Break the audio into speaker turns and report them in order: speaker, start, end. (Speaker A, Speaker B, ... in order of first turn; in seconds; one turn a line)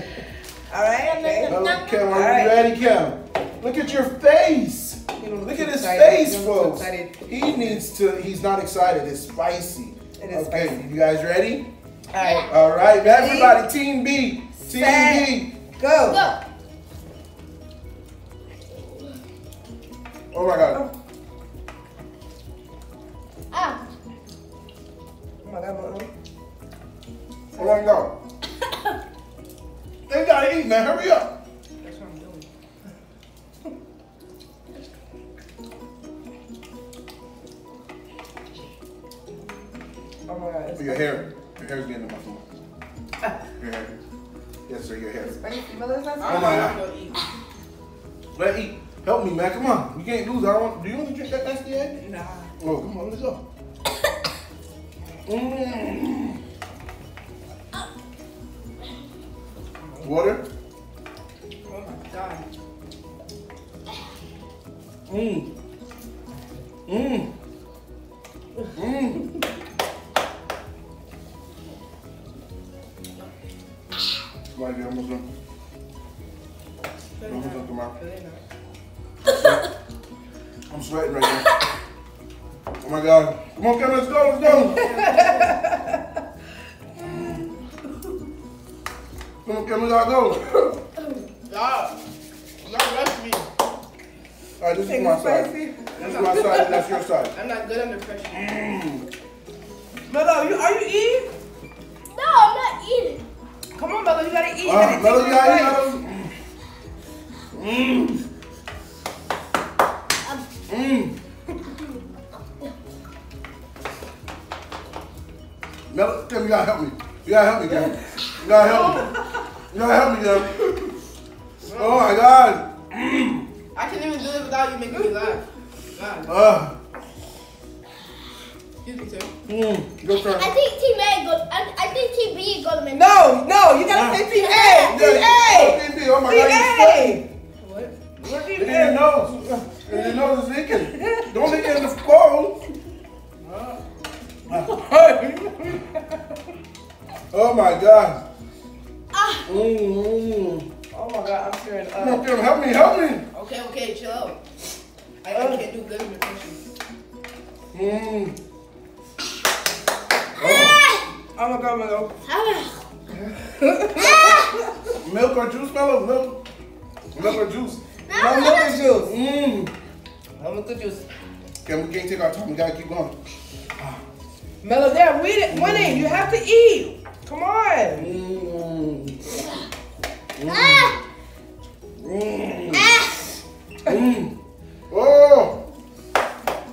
Speaker A: 0.7-2.7
Speaker B: 1.0-2.3
Speaker C: 1.4-11.7
Speaker A: 5.2-7.8
Speaker A: 10.2-10.9
Speaker A: 12.1-13.6
Speaker B: 12.2-12.5
Speaker C: 12.5-15.5
Speaker A: 14.6-16.3
Speaker B: 15.9-16.4
Speaker C: 20.3-20.8
Speaker B: 23.5-23.8
Speaker A: 25.4-26.1
Speaker C: 27.5-28.1
Speaker C: 30.1-31.3
Speaker D: 31.8-32.5
Speaker A: 40.3-41.3
Speaker C: 40.7-42.4
Speaker C: 43.6-43.9
Speaker C: 44.7-45.4
Speaker A: 45.2-46.8
Speaker D: 46.2-47.2
Speaker C: 46.2-46.8
Speaker C: 48.3-52.0
Speaker D: 52.0-52.5
Speaker C: 52.6-53.4
Speaker C: 55.3-56.4
Speaker C: 60.0-60.4
Speaker A: 61.7-61.9
Speaker D: 61.9-62.5
Speaker C: 65.1-65.5
Speaker C: 66.9-67.3
Speaker C: 68.7-69.3
Speaker C: 74.5-75.2
Speaker D: 77.2-78.4
Speaker C: 77.2-77.9
Speaker C: 79.2-79.7
Speaker C: 80.7-81.5
Speaker C: 82.8-84.9
Speaker A: 84.5-86.0
Speaker D: 84.6-85.7
Speaker C: 87.0-87.5
Speaker C: 89.4-90.5
Speaker D: 91.5-91.9
Speaker D: 92.6-93.5
Speaker C: 94.6-97.3
Speaker A: 94.8-96.9
Speaker D: 96.0-98.5
Speaker C: 98.3-99.0
Speaker A: 100.1-101.3
Speaker B: 102.1-103.2
Speaker A: 103.7-105.9
Speaker C: 104.6-106.3
Speaker C: 107.5-108.2
Speaker C: 110.7-111.1
Speaker C: 115.9-119.1
Speaker A: 118.7-119.2
Speaker C: 119.7-120.9
Speaker D: 121.6-122.1
Speaker C: 121.7-123.5
Speaker D: 123.7-126.3
Speaker A: 124.9-125.3
Speaker C: 126.2-126.7
Speaker D: 128.8-129.3
Speaker C: 129.5-130.5
Speaker B: 130.1-133.4
Speaker A: 132.9-137.2
Speaker C: 133.8-134.2
Speaker B: 134.3-135.0
Speaker C: 134.8-137.2
Speaker D: 137.6-137.9
Speaker A: 138.2-140.2
Speaker C: 138.5-142.6
Speaker A: 140.7-141.8
Speaker A: 144.5-146.0
Speaker C: 147.3-148.2
Speaker B: 149.1-149.4
Speaker C: 149.4-150.6
Speaker A: 150.9-152.3
Speaker C: 152.0-153.2
Speaker D: 153.3-154.4
Speaker D: 155.2-156.6
Speaker A: 155.3-155.6
Speaker C: 157.7-158.3
Speaker C: 160.4-160.8
Speaker B: 160.4-161.1
Speaker A: 161.3-162.1
Speaker B: 162.2-162.8
Speaker A: 163.2-164.7
Speaker B: 164.0-164.5
Speaker C: 165.0-166.4
Speaker C: 167.1-167.8
Speaker B: 168.1-169.0
Speaker A: 168.1-169.1
Speaker C: 168.9-169.7
Speaker A: 170.4-171.0
Speaker C: 171.6-173.1
Speaker A: 174.6-178.1
Speaker C: 175.5-176.2
Speaker C: 178.0-179.4
Speaker C: 180.3-180.9
Speaker B: 180.5-181.0
Speaker C: 182.0-182.9
Speaker B: 182.7-183.4
Speaker C: 183.8-184.3
Speaker C: 184.9-185.6